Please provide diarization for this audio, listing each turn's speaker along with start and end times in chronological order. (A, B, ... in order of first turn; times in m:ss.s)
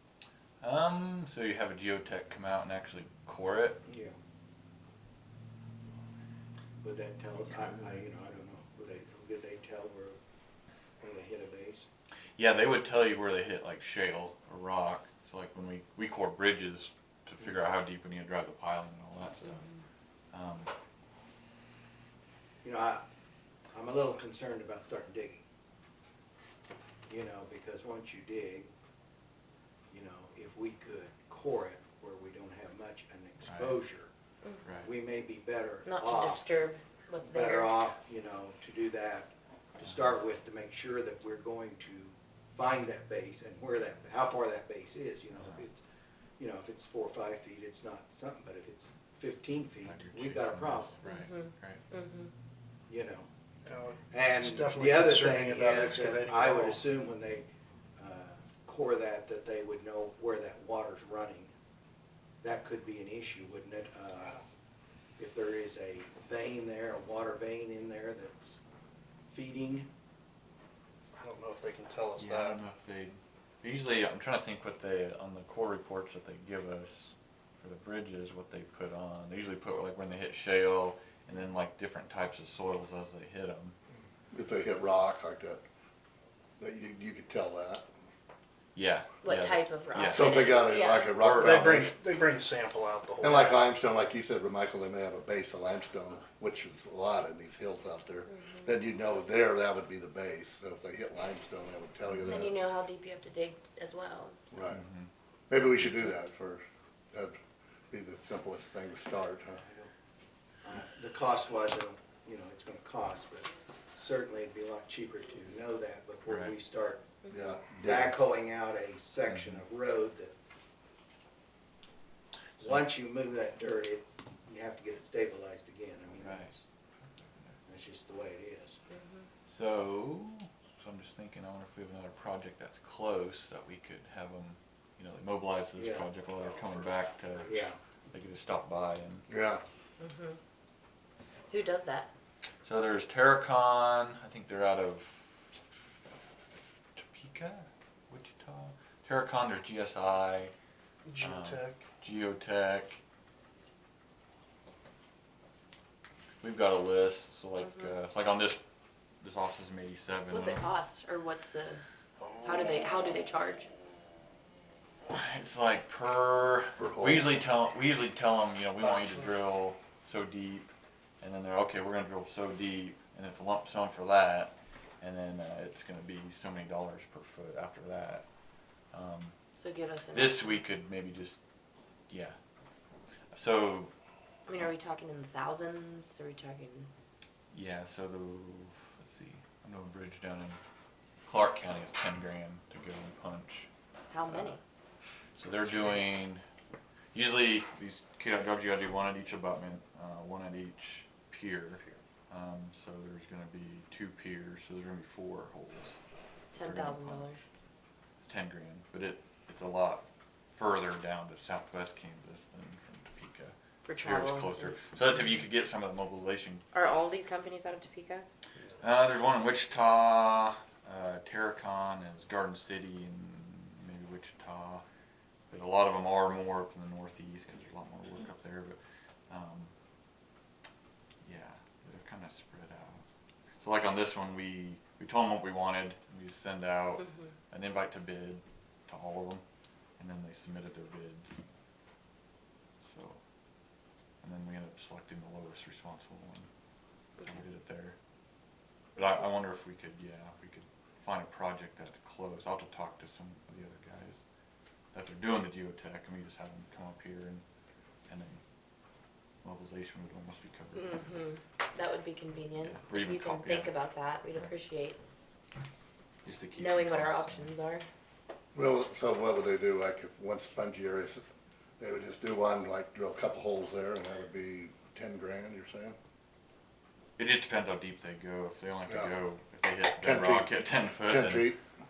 0:00.6-0:03.8 A
0:03.8-0:04.1 B
0:06.8-0:10.2 B
0:07.5-0:08.0 A
0:11.0-0:11.8 B
0:12.4-0:19.7 A
0:20.3-0:20.7 A
0:22.6-0:23.0 B
0:23.7-0:25.4 B
0:27.1-0:28.7 B
0:29.9-0:34.1 B
0:33.4-0:33.8 A
0:34.8-0:36.6 B
0:35.8-0:37.8 C
0:37.2-0:45.8 B
0:45.3-0:45.7 A
0:46.4-0:50.9 B
0:49.8-0:51.8 A
0:51.0-0:52.3 C
0:52.9-0:53.3 B
0:53.6-0:56.8 D
0:54.1-0:57.4 B
0:58.0-1:01.5 B
1:02.4-1:04.4 B
1:05.2-1:08.6 B
1:09.3-1:09.9 B
1:11.2-1:12.6 D
1:12.2-1:23.7 A
1:24.3-1:25.6 E
1:26.6-1:27.8 E
1:28.7-1:31.9 A
1:29.2-1:31.1 C
1:30.0-1:31.9 E
1:31.3-1:33.6 D
1:33.2-1:42.6 E
1:38.3-1:38.7 C
1:42.2-1:44.4 C
1:44.5-1:44.8 E
1:44.7-1:45.1 A
1:45.5-1:47.4 E
1:47.9-1:49.6 E
1:49.6-1:49.9 B
1:50.6-1:57.1 B
1:56.3-1:56.6 A
1:57.2-1:57.5 C
1:57.3-1:58.2 E
1:57.8-2:00.3 B
1:59.2-1:59.6 A
2:02.6-2:06.6 B
2:02.6-2:02.9 A
2:06.1-2:06.5 A
2:07.2-2:07.6 A
2:07.7-2:08.8 B
2:08.9-2:09.2 C
2:09.4-2:19.2 A
2:15.8-2:16.1 B
2:17.4-2:17.8 B
2:19.3-2:19.6 E
2:20.0-2:20.4 C
2:21.5-2:22.1 C
2:22.6-2:25.3 A
2:26.9-2:30.5 A
2:31.0-2:31.8 D
2:31.2-2:33.0 A
2:36.4-2:38.6 A
2:39.2-2:40.6 A
2:40.3-2:41.8 C
2:42.4-2:43.7 C
2:45.0-2:58.2 A
2:46.8-2:47.4 E
2:48.8-2:49.2 D
2:58.9-2:59.4 A
2:59.6-3:00.6 C
3:00.1-3:01.4 A
3:02.1-3:02.3 A
3:03.3-3:03.9 A
3:04.4-3:06.9 C
3:07.5-3:10.6 A
3:11.2-3:13.7 A
3:14.1-3:14.6 C
3:14.2-3:14.6 A
3:15.4-3:16.4 A
3:17.1-3:26.0 A
3:26.5-3:27.4 C
3:26.6-3:27.3 A
3:28.2-3:36.6 A
3:33.8-3:34.7 C
3:36.7-3:38.2 C
3:38.8-3:44.8 A
3:45.5-3:48.8 A
3:49.3-3:49.7 A
3:51.2-3:53.0 A
3:53.6-3:59.4 A
4:00.0-4:01.4 A
4:02.8-4:03.2 A
4:04.2-4:06.5 A
4:07.2-4:08.0 A
4:09.0-4:14.2 A
4:14.9-4:17.4 A
4:18.1-4:18.4 A
4:19.4-4:21.1 A
4:20.7-4:25.0 C
4:22.6-4:23.7 A
4:26.2-4:27.5 A
4:26.6-4:27.8 C
4:28.5-4:31.2 E
4:31.8-4:36.0 E
4:37.2-4:41.6 A
4:40.0-4:40.5 E
4:41.0-4:41.6 E